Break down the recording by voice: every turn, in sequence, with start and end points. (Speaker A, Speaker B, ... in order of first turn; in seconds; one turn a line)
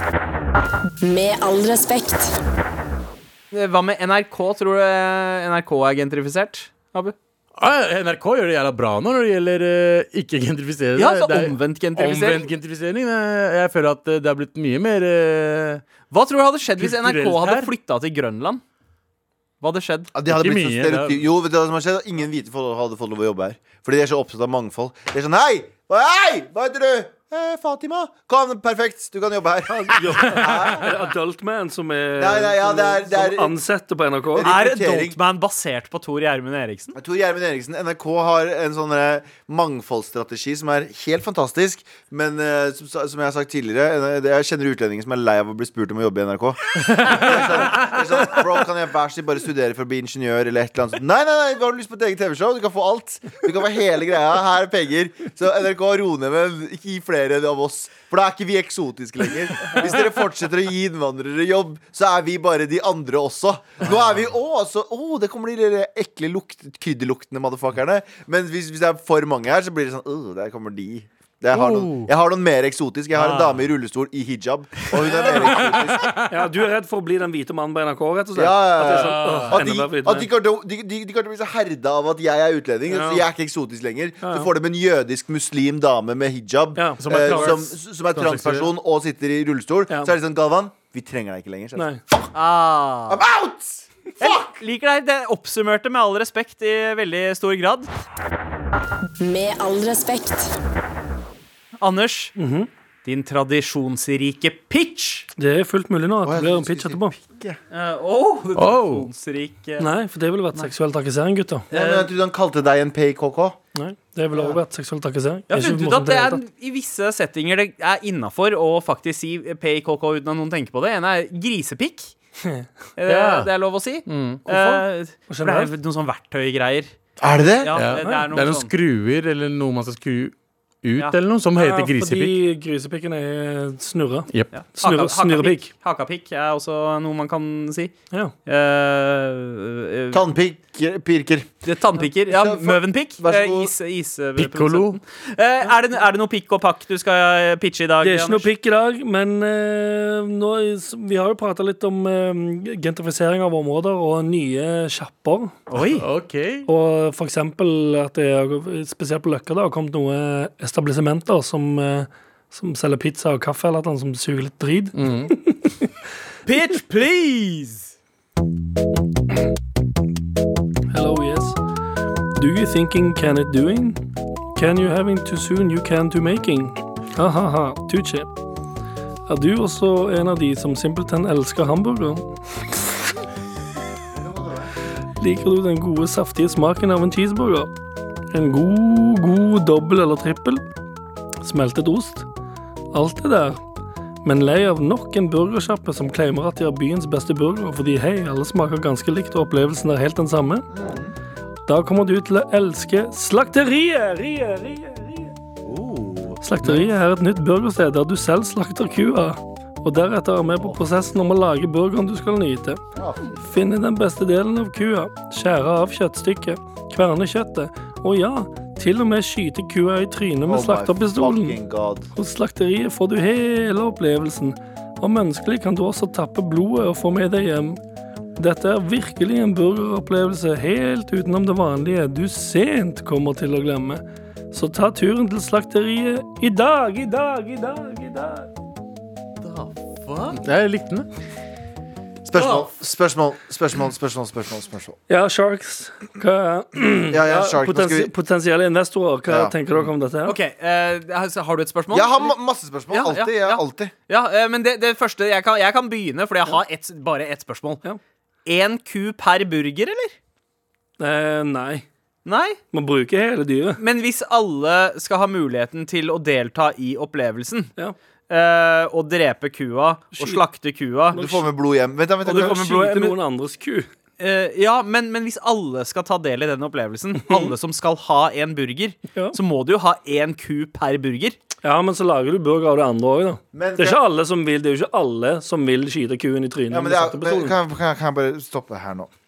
Speaker A: 1.0-2.4
Speaker B: 3.5-7.1
Speaker C: 7.6-15.8
Speaker B: 10.9-12.5
Speaker B: 16.1-18.6
Speaker C: 16.8-17.7
Speaker B: 19.6-20.1
Speaker D: 20.1-30.9
Speaker C: 20.3-21.2
Speaker E: 29.8-34.5
Speaker D: 32.2-33.6
Speaker D: 34.3-35.2
Speaker B: 34.4-36.9
Speaker D: 36.9-76.2
Speaker C: 46.9-48.0
Speaker C: 71.5-72.1
Speaker B: 73.2-73.5
Speaker C: 75.5-76.3
Speaker E: 76.3-80.3
Speaker D: 78.3-92.3
Speaker C: 78.8-79.6
Speaker E: 82.9-83.2
Speaker E: 84.2-84.5
Speaker C: 87.0-88.7
Speaker E: 89.9-90.1
Speaker E: 91.8-92.0
Speaker B: 92.3-93.2
Speaker D: 93.1-94.5
Speaker B: 94.2-97.9
Speaker A: 99.2-100.5
Speaker B: 101.8-102.3
Speaker E: 102.4-102.7
Speaker B: 103.0-105.3
Speaker E: 105.4-107.1
Speaker D: 106.2-107.6
Speaker B: 107.7-109.9
Speaker C: 108.5-109.0
Speaker E: 109.8-111.7
Speaker B: 111.7-112.1
Speaker D: 111.7-113.6
Speaker E: 113.7-116.4
Speaker B: 115.5-122.1
Speaker B: 123.0-126.9
Speaker C: 123.0-123.5
Speaker C: 124.0-124.8
Speaker E: 125.3-125.7
Speaker D: 127.2-127.7
Speaker B: 127.6-128.7
Speaker C: 127.7-132.4
Speaker E: 131.5-135.7
Speaker B: 134.5-137.9
Speaker B: 138.4-140.2
Speaker D: 140.1-141.5
Speaker B: 141.6-148.5
Speaker D: 142.3-143.7
Speaker C: 144.4-145.0
Speaker E: 148.0-155.6
Speaker B: 155.7-156.0
Speaker C: 155.9-156.7
Speaker E: 156.7-165.9
Speaker C: 164.9-165.3
Speaker B: 166.4-167.9
Speaker E: 170.9-171.6
Speaker E: 172.3-174.0
Speaker E: 174.5-178.3
Speaker E: 179.3-182.8
Speaker D: 184.2-184.7
Speaker E: 185.2-187.7
Speaker E: 188.3-190.6
Speaker E: 191.4-192.3
Speaker E: 192.9-193.6
Speaker E: 194.2-200.7
Speaker D: 200.7-201.1
Speaker E: 201.7-205.3
Speaker D: 205.6-206.4
Speaker E: 206.4-212.8
Speaker D: 212.9-213.4
Speaker E: 213.4-221.6
Speaker D: 220.4-222.1
Speaker E: 222.1-227.8
Speaker E: 228.4-238.5
Speaker B: 239.4-240.3
Speaker C: 240.3-241.1
Speaker D: 242.2-245.0
Speaker B: 242.3-242.7
Speaker E: 245.1-250.3
Speaker D: 247.1-248.1
Speaker D: 249.3-249.6
Speaker B: 250.2-252.3
Speaker D: 251.9-253.9
Speaker B: 252.9-257.8
Speaker B: 258.4-260.1
Speaker E: 261.0-261.9
Speaker B: 262.2-262.6
Speaker E: 262.7-263.8
Speaker B: 263.8-267.7
Speaker B: 268.3-271.4
Speaker E: 270.1-270.4
Speaker D: 271.1-272.7
Speaker E: 272.2-273.9
Speaker B: 272.2-273.1
Speaker B: 274.2-281.4
Speaker E: 277.3-277.5
Speaker E: 281.6-287.5
Speaker D: 283.5-284.0
Speaker D: 286.7-289.1